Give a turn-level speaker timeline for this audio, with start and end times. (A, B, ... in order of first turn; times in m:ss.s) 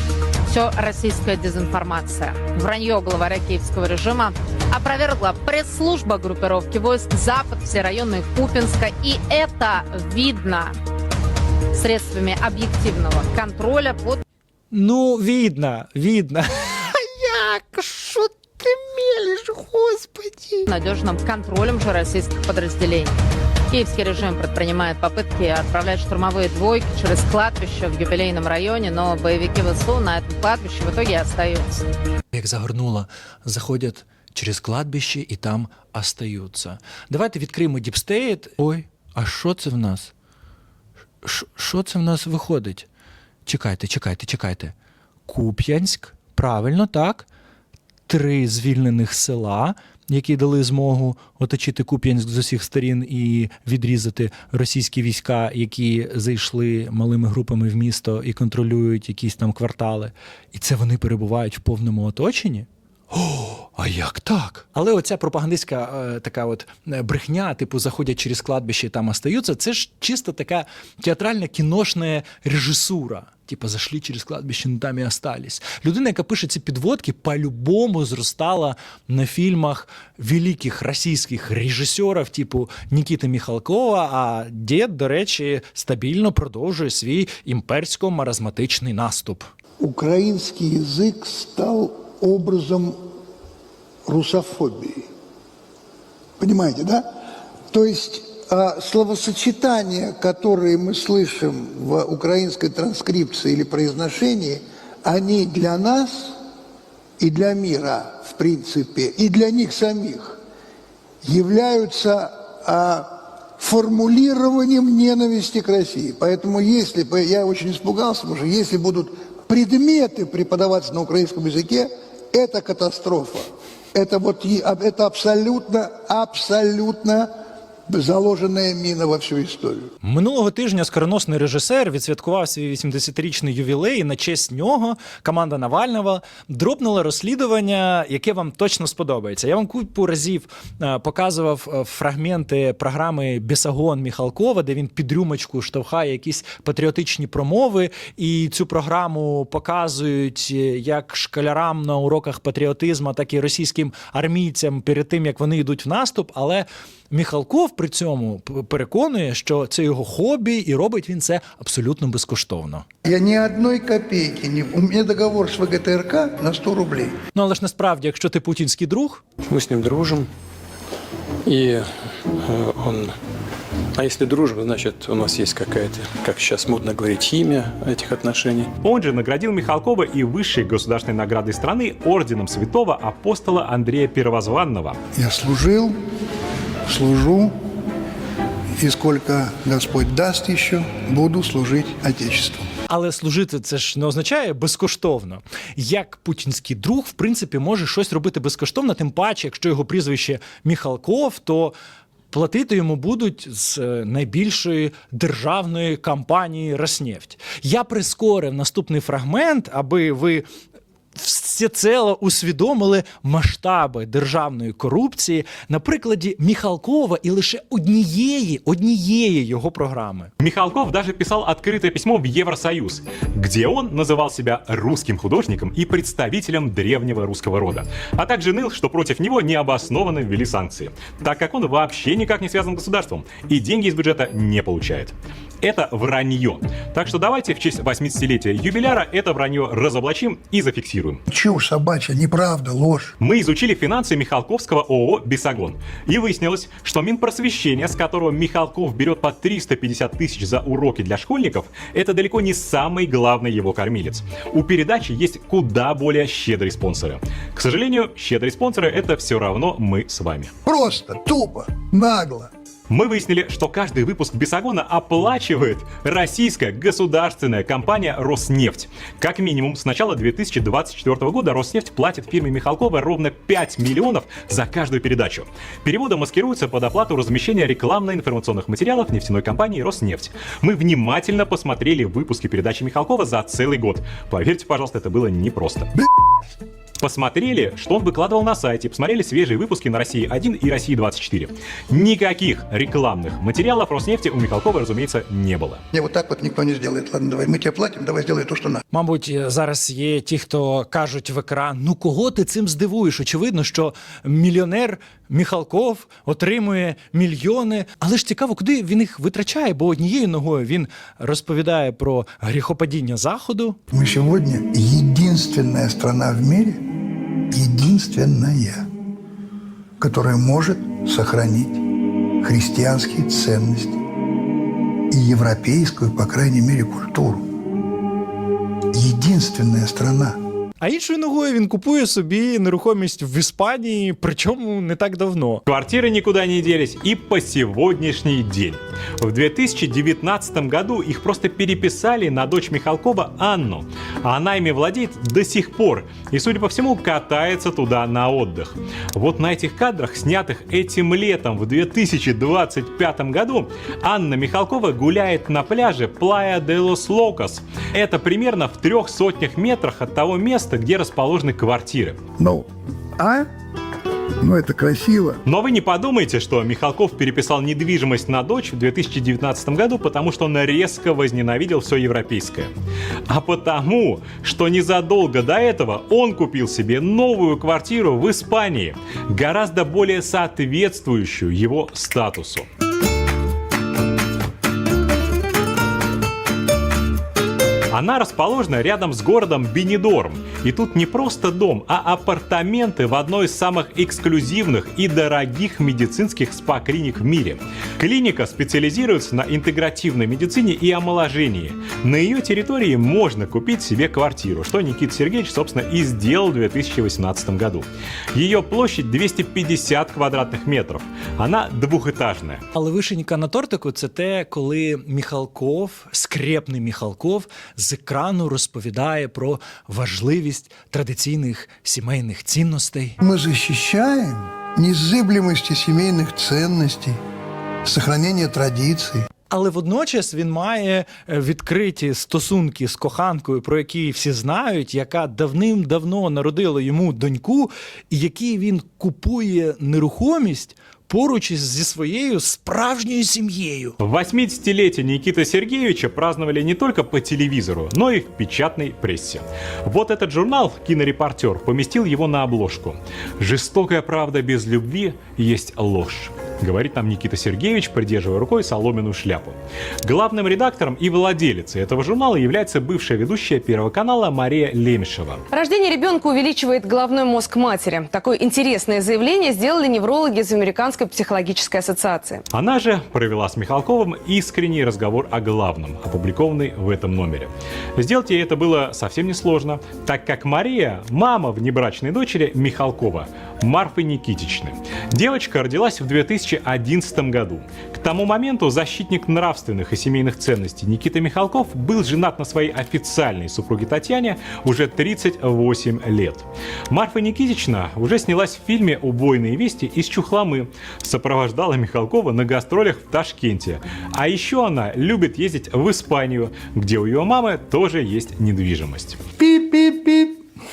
0:00.5-0:10.7 A
0:11.7-0:14.2 A
0:14.7-0:20.7 B
0:20.6-0:23.2 A
0:23.7-0:31.8 A
0:32.3-0:40.1 B
0:41.2-0:42.9 B
0:43.4-0:44.7 B
0:45.3-0:47.3 B
0:48.1-1:29.5 B
1:29.8-1:33.0 C
1:34.0-1:35.0 C
1:36.4-1:37.1 C
1:37.7-1:46.4 C
1:47.2-1:50.4 C
1:51.2-2:07.3 C
2:07.9-2:09.9 C
2:10.0-2:42.8 B
2:43.0-2:47.1 C
2:47.3-2:49.2 B
2:49.5-2:50.3 D
2:51.4-2:51.9 D
2:52.4-2:53.1 D
2:54.0-2:58.7 D
2:58.8-3:05.0 E
3:05.1-3:05.9 C
3:06.9-3:07.5 C
3:08.8-3:12.6 C
3:12.9-3:21.7 B
3:22.3-3:30.4 B
3:31.1-3:40.3 B
3:40.4-4:01.2 E
4:01.3-4:03.1 C
4:03.2-4:20.5 E
4:20.6-4:22.5 C
4:22.9-4:45.9 E
4:47.0-4:55.8 E
4:55.9-4:58.8 C
4:58.9-5:13.8 B
5:13.9-5:16.8 C
5:17.5-5:18.8 C
5:20.0-5:21.8 C
5:22.4-5:24.0 C
5:25.1-5:27.4 C
5:28.9-5:30.4 C
5:30.8-5:35.6 B
5:35.6-6:02.2 E
6:02.4-6:02.6 C
6:03.2-6:03.4 C
6:04.4-6:05.4 C
6:05.4-6:12.7 E
6:13.3-6:22.7 E
6:27.9-6:52.6 E
6:52.7-7:03.2 B
7:03.2-7:07.2 C
7:07.8-7:09.3 C
7:09.5-7:24.0 B
7:24.0-7:45.4 E
7:45.5-7:52.4 F
7:52.5-8:29.2 E
8:29.4-8:30.4 C